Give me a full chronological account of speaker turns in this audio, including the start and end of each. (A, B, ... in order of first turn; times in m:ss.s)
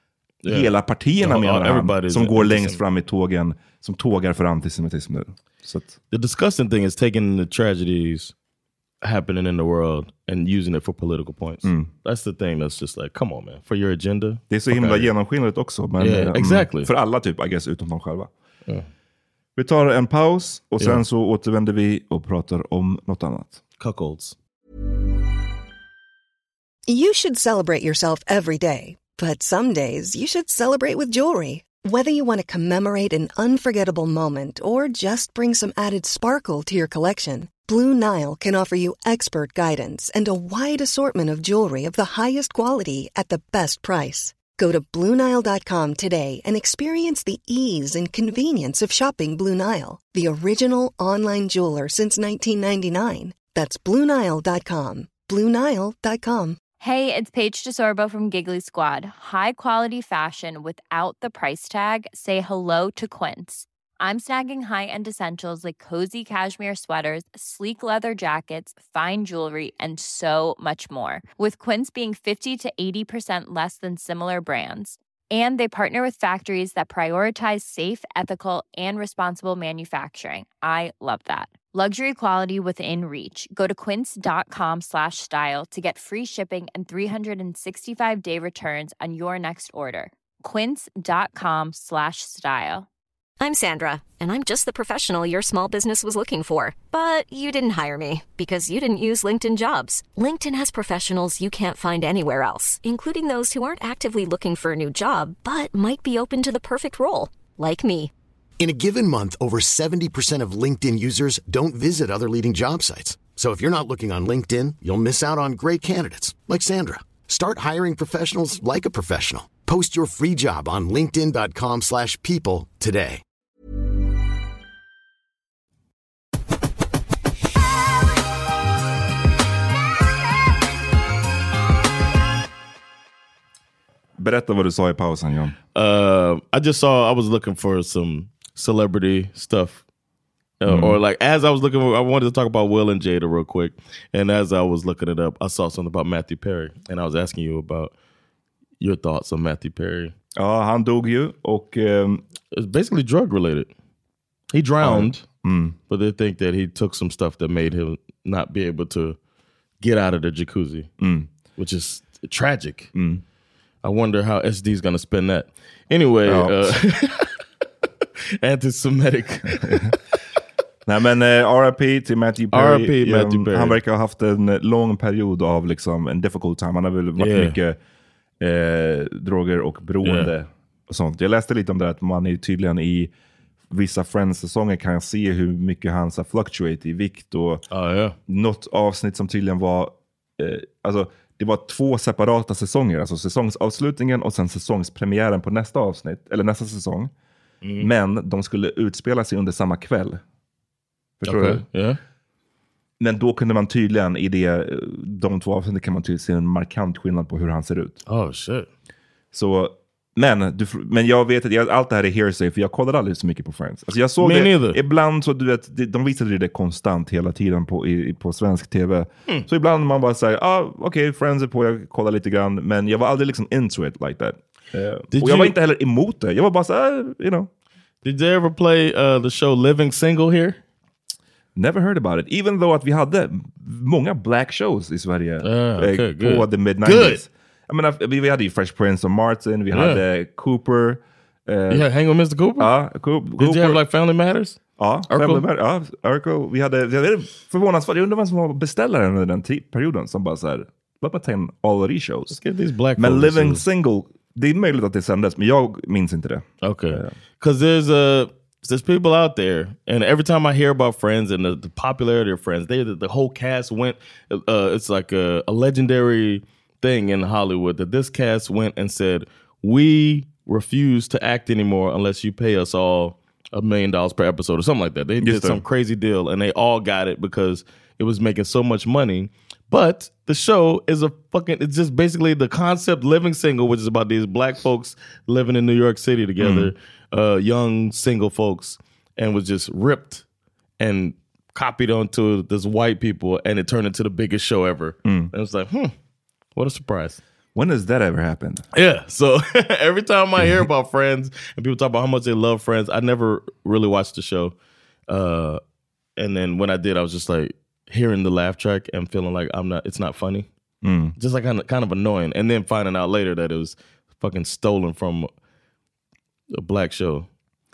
0:00.4-0:00.7 A
0:00.5-0:06.0 B
0:01.2-0:02.8 A
0:06.1-0:08.3 A
0:09.0-0:15.1 A
0:11.6-0:11.9 B
0:14.5-0:18.3 B
0:16.0-0:16.9 A
0:19.6-0:23.6 B
0:23.8-0:24.4 A
0:26.9-0:56.6 C
0:56.8-1:32.9 D
1:33.4-1:48.1 E
1:48.6-2:03.2 F
2:14.2-2:15.6 B
2:15.7-2:19.8 A
2:20.6-2:27.9 A
2:20.6-2:21.0 B
2:28.8-2:30.1 A
2:30.4-2:32.2 B
2:32.5-2:33.7 A
2:34.5-2:35.2 A
2:34.8-2:35.8 B
2:35.9-2:39.2 A
2:39.8-2:40.9 A
2:41.0-2:41.3 B
2:41.6-2:42.9 A
2:42.9-2:43.2 B
2:43.8-2:47.4 A
2:46.2-2:46.8 B
2:48.4-2:50.0 A
2:50.9-2:57.8 B
2:52.5-2:53.8 A
2:57.2-2:57.6 A
2:58.4-3:03.1 B
3:00.0-3:00.3 A
3:03.7-3:07.6 B
3:07.7-3:08.2 A
3:08.3-3:17.1 B
3:17.6-3:17.9 A
3:17.8-3:20.2 B
3:21.2-3:21.6 B
3:21.3-3:22.0 A
3:23.0-3:28.0 B
3:28.1-3:28.7 A
3:29.3-3:47.5 B
3:34.2-3:34.8 A
3:45.1-3:45.6 A
3:48.0-3:50.6 A
3:51.6-4:01.9 B
3:55.4-3:57.2 A
3:59.7-4:00.0 A
4:01.7-4:02.7 A
4:02.6-4:03.8 B
4:03.4-4:05.4 A
4:04.8-4:12.4 B
4:12.3-4:13.6 A
4:13.0-4:17.1 B
4:16.6-4:50.2 A
4:35.2-4:35.6 B
4:46.4-4:46.7 B
4:50.8-4:55.9 A
4:55.0-4:55.3 B
4:56.6-4:57.2 A
4:57.6-4:58.6 B
4:58.7-5:04.6 A
5:05.1-5:05.6 A
5:06.2-5:10.5 A
5:10.8-5:11.1 B
5:11.2-5:15.3 A
5:16.5-5:17.3 A